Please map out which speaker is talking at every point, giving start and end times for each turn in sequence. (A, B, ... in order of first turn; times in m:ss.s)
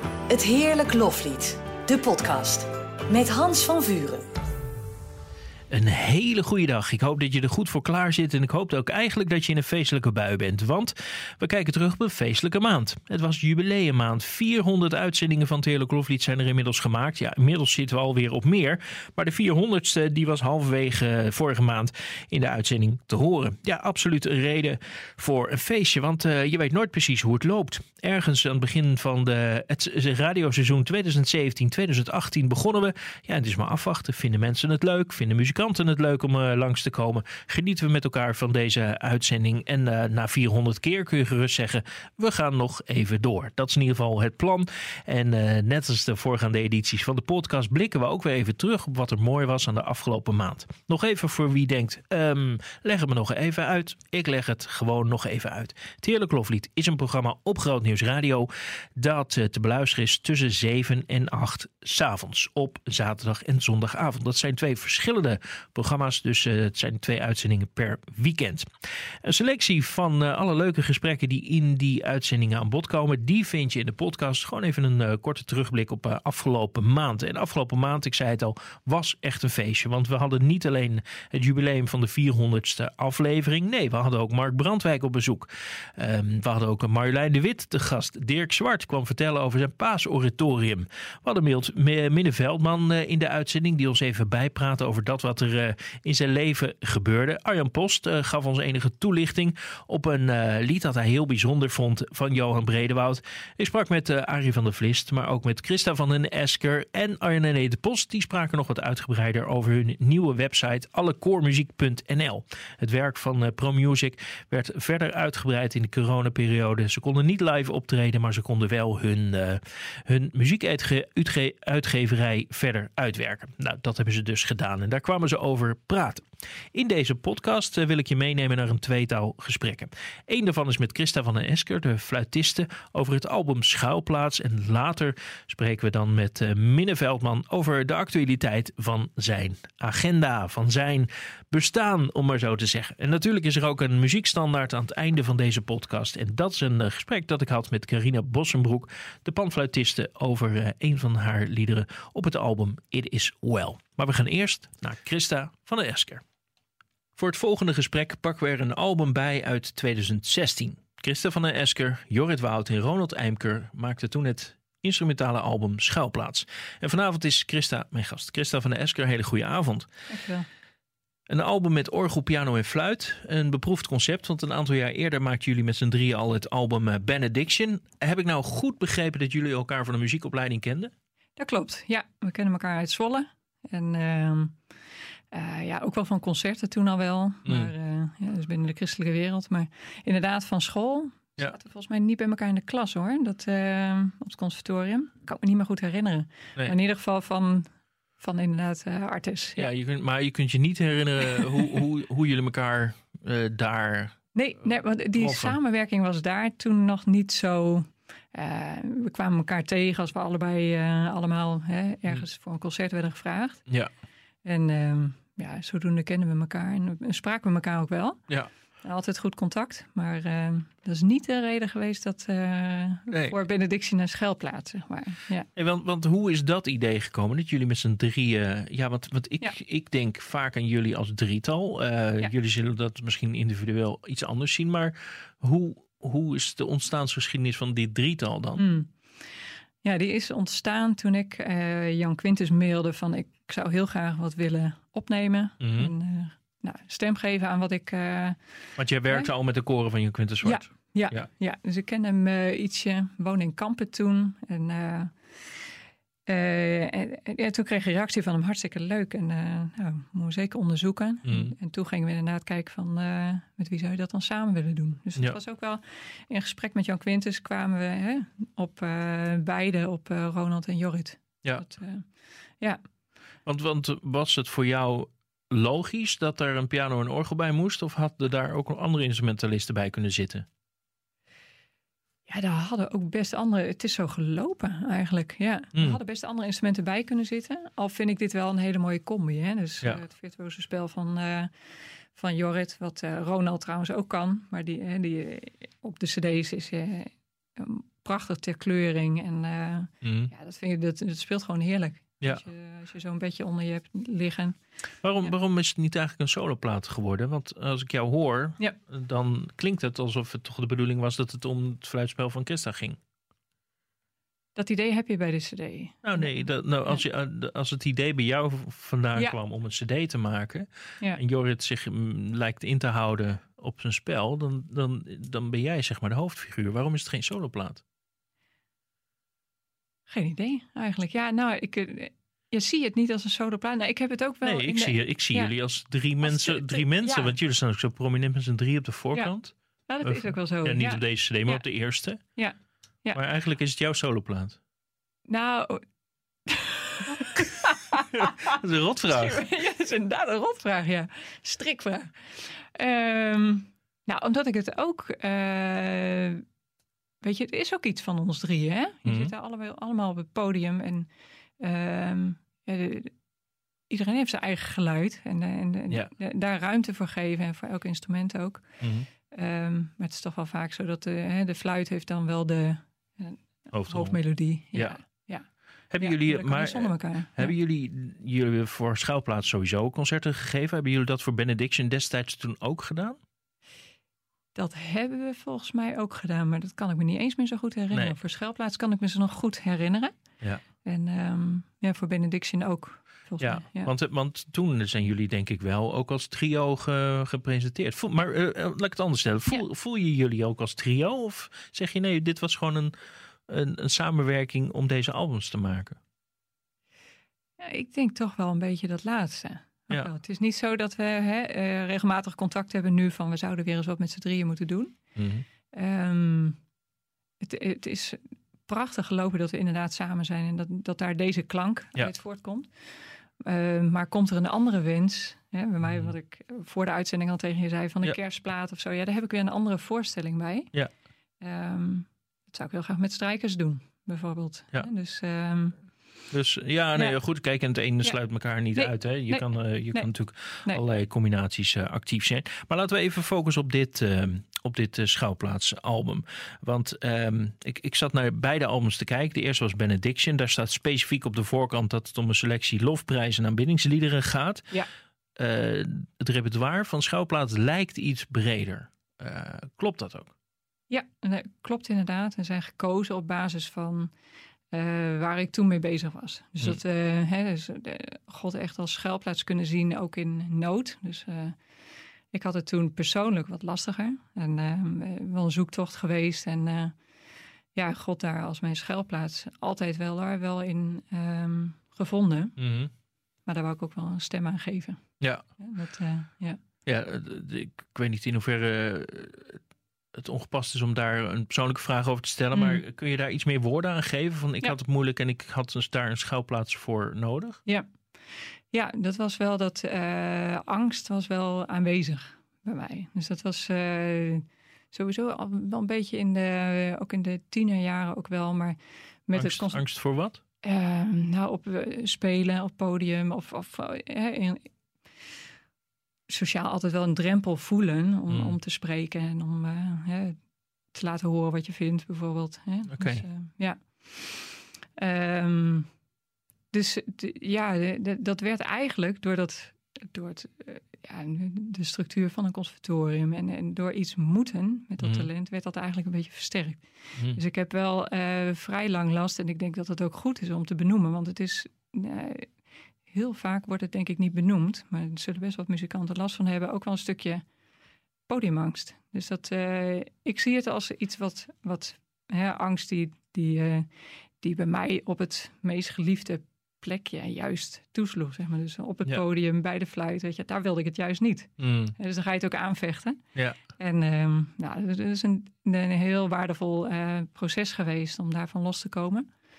0:00.3-0:04.2 A
0:05.7-2:36.2 B
2:37.2-2:49.9 B
2:50.1-2:50.5 C
2:51.3-3:00.9 B
3:01.4-3:04.6 C
3:05.3-3:19.7 C
3:07.5-3:07.7 B
3:19.6-3:24.3 B
3:24.3-3:33.6 C
3:25.2-3:25.6 B
3:34.4-3:38.2 C
3:38.8-3:45.5 C
3:43.1-3:43.4 B
3:45.6-3:58.6 B
3:58.6-3:58.9 C
3:59.8-4:08.5 C
4:05.6-4:05.9 B
4:08.8-4:11.3 B
4:10.4-4:15.2 C
4:16.3-4:32.8 C
4:21.3-4:21.6 B
4:33.5-4:40.5 B
4:42.3-4:51.5 C
4:45.8-4:46.0 B
4:52.1-5:04.6 C
5:00.0-5:00.3 B
5:05.0-5:13.0 B
5:14.6-5:17.0 C
5:16.0-5:27.8 B
5:30.1-5:35.5 C
5:34.4-5:42.2 B
5:36.2-5:37.3 C
5:39.9-5:41.7 C
5:42.2-5:43.2 C
5:43.1-5:44.6 B
5:45.3-5:45.8 C
5:46.5-5:48.5 C
5:48.1-5:49.4 B
5:49.1-5:56.4 C
5:57.2-6:01.1 C
5:59.0-5:59.3 B
6:01.6-6:03.1 C
6:03.9-6:08.7 C
6:08.8-6:09.1 B
6:09.3-6:15.5 C
6:13.7-6:14.2 B
6:14.7-6:15.0 B
6:15.9-6:23.2 B
6:16.0-6:17.6 C
6:24.6-6:30.2 C
6:27.9-6:28.2 B
6:30.8-6:33.9 C
6:33.4-6:42.9 B
6:43.5-6:46.0 B
6:47.6-6:55.0 C
6:55.2-6:55.4 B
6:55.7-6:56.6 C
6:57.4-7:10.7 C
7:05.8-7:06.1 B
7:11.4-7:15.8 C
7:16.3-7:34.7 B
7:18.7-7:20.1 C
7:35.4-7:40.3 B
7:40.9-7:44.1 C
7:44.7-7:51.6 C
7:52.3-7:57.0 C
7:57.8-8:02.6 C
8:02.6-8:02.9 B
8:03.5-8:06.6 C
8:06.8-8:09.6 B
8:10.1-8:17.6 B
8:12.5-8:12.8 C
8:18.7-8:29.8 C
8:29.3-8:30.4 B
8:30.6-8:34.7 C
8:36.3-8:40.4 C
8:38.3-8:38.6 B
8:40.9-8:45.9 C
8:42.9-8:43.2 B
8:46.7-9:07.4 C
8:55.0-8:55.3 B
9:08.3-9:23.2 C
9:21.6-9:22.0 B
9:23.7-9:29.3 C